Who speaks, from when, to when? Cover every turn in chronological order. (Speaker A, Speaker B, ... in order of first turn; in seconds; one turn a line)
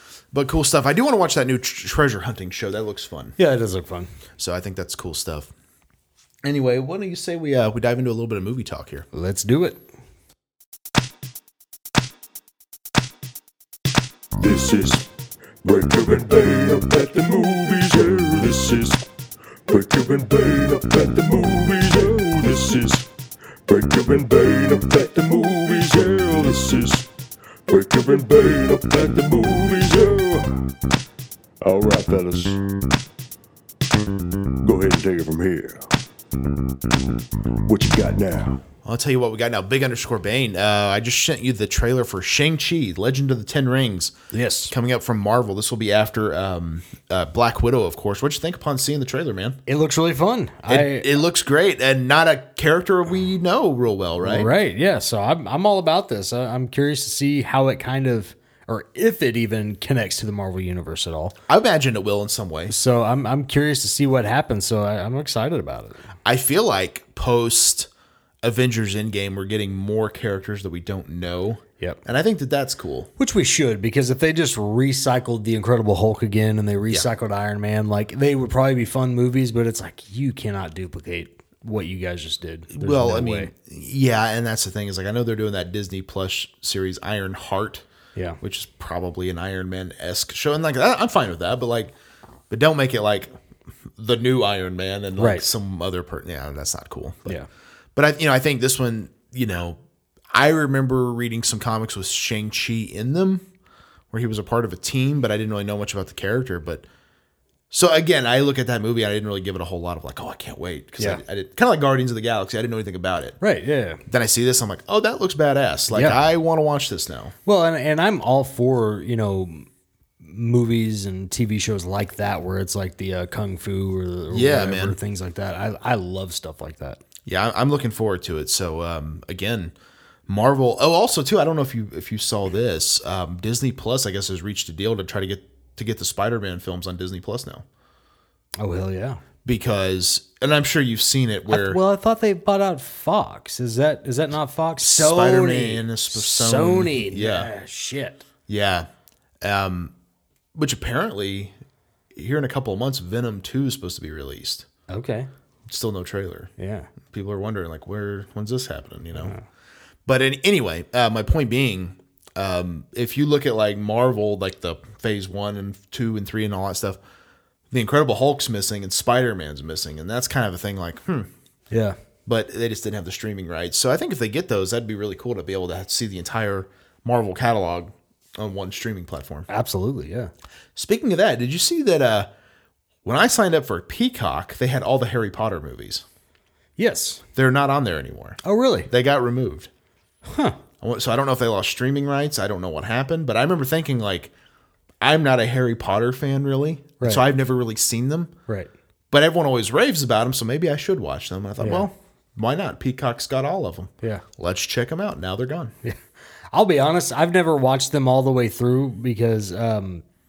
Speaker A: 0.3-3.4
Speaker B: 3.4-4.1
Speaker A: 4.4-5.5
Speaker A: 6.4-9.1
Speaker B: 9.1-9.8
Speaker C: 14.4-15.1
Speaker C: 15.6-19.0
Speaker C: 19.7-23.1
Speaker C: 23.7-27.1
Speaker C: 27.7-30.5
Speaker C: 31.6-32.6
Speaker C: 34.6-35.9
Speaker C: 37.6-38.6
Speaker A: 38.8-44.1
Speaker B: 44.3-44.7
Speaker A: 44.7-49.6
Speaker B: 49.7-51.1
Speaker A: 50.7-54.5
Speaker B: 54.2-61.4
Speaker A: 61.5-62.7
Speaker B: 62.7-66.0
Speaker A: 66.2-67.9
Speaker A: 68.4-73.1
Speaker B: 73.2-83.5
Speaker A: 82.7-87.9
Speaker A: 88.4-91.9
Speaker A: 92.5-93.3
Speaker A: 94.0-97.4
Speaker B: 95.2-95.5
Speaker A: 98.0-99.8
Speaker A: 100.3-103.4
Speaker A: 104.1-106.9
Speaker A: 107.7-113.4
Speaker B: 113.4-114.0
Speaker A: 114.1-117.3
Speaker B: 115.9-116.2
Speaker B: 117.5-119.7
Speaker B: 120.2-127.0
Speaker A: 124.3-125.0
Speaker A: 127.3-129.7
Speaker A: 130.3-137.7
Speaker B: 138.6-139.2
Speaker A: 139.4-141.8
Speaker B: 141.5-148.2
Speaker A: 144.8-147.5
Speaker A: 148.5-148.9
Speaker A: 149.4-149.9
Speaker A: 150.6-151.5
Speaker A: 152.1-154.7
Speaker B: 154.9-155.3
Speaker A: 155.7-156.5
Speaker B: 156.6-156.9
Speaker A: 157.1-159.4
Speaker B: 159.1-159.5
Speaker A: 160.1-167.0
Speaker A: 167.7-171.3
Speaker B: 171.7-172.0
Speaker A: 172.3-179.5
Speaker B: 179.5-180.3
Speaker A: 180.8-182.3
Speaker A: 183.1-186.1
Speaker B: 186.8-187.2
Speaker A: 187.4-189.7
Speaker B: 188.4-188.9
Speaker B: 190.3-190.6
Speaker A: 190.8-194.3
Speaker A: 195.0-198.3
Speaker A: 199.1-205.7
Speaker B: 201.6-201.9
Speaker B: 206.5-210.0